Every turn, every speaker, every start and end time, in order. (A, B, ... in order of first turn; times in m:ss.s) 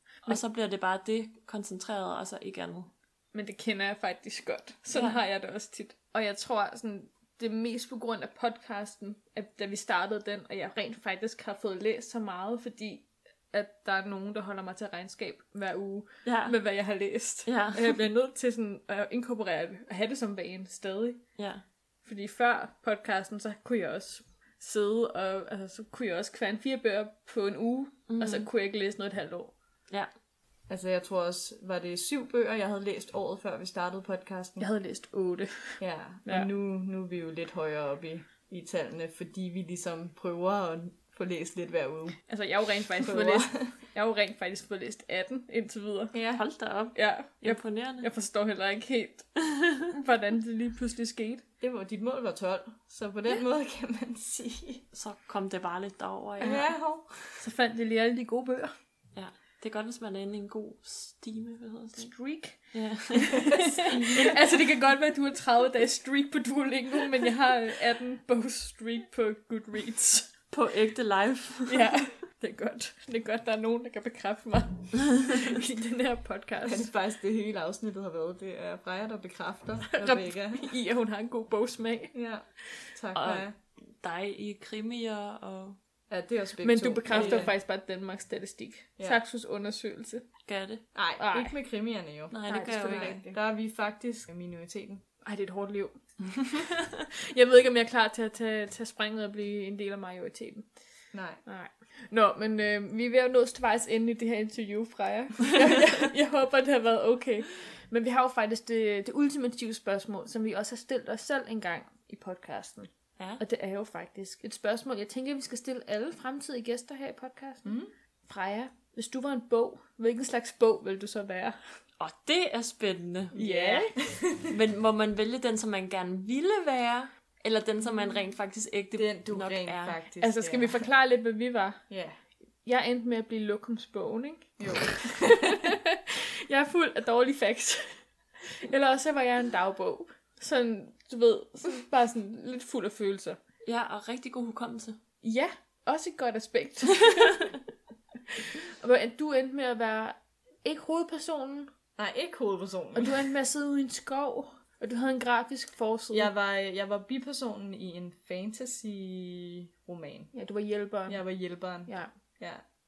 0:00.3-0:02.9 A
0:03.3-0:21.2 B
0:04.9-0:05.2 A
0:16.2-0:16.6 A
0:17.5-0:18.0 A
0:21.4-0:21.6 A
0:22.0-0:29.6 B
0:28.1-0:28.5 A
0:30.7-0:34.7 C
0:34.6-0:36.5 B
0:35.8-0:42.2 C
0:42.3-0:46.2 B
0:43.0-0:43.7 C
0:46.1-0:46.4 C
0:46.4-0:48.1 A
0:47.0-0:49.3 B
0:49.5-0:49.8 A
0:49.9-0:51.4 B
0:51.6-0:54.8 C
0:54.9-0:56.7 A
0:56.4-0:57.3 C
0:57.4-0:58.7 B
0:59.1-1:02.1 A
1:02.0-1:02.6 B
1:02.7-1:04.4 A
1:03.2-1:10.3 B
1:03.8-1:04.5 C
1:10.5-1:11.9 A
1:11.7-1:16.9 B
1:16.7-1:20.8 C
1:19.9-1:22.2 B
1:22.1-1:23.5 C
1:23.1-1:23.5 A
1:24.0-1:25.8 A
1:26.1-1:27.5 C
1:26.6-1:30.3 B
1:27.1-1:27.4 A
1:30.5-1:30.8 A
1:30.9-1:35.0 C
1:31.2-1:31.6 B
1:32.3-1:33.2 A
1:32.5-1:33.4 B
1:35.2-1:40.7 B
1:41.1-1:41.4 C
1:41.4-1:57.7 B
1:57.6-1:57.9 C
1:58.3-2:01.6 B
2:02.0-2:03.3 A
2:03.3-2:03.9 B
2:03.3-2:04.6 C
2:04.5-2:10.0 A
2:09.0-2:10.8 C
2:10.2-2:11.8 B
2:11.9-2:12.2 C
2:12.6-2:23.4 B
2:14.6-2:15.3 C
2:23.7-2:25.0 A
2:25.2-2:27.5 B
2:28.7-2:31.7 B
2:32.0-2:33.2 C
2:33.0-2:36.3 B
2:36.1-2:40.3 C
2:40.3-2:41.2 B
2:41.1-2:42.6 C
2:41.9-2:42.1 B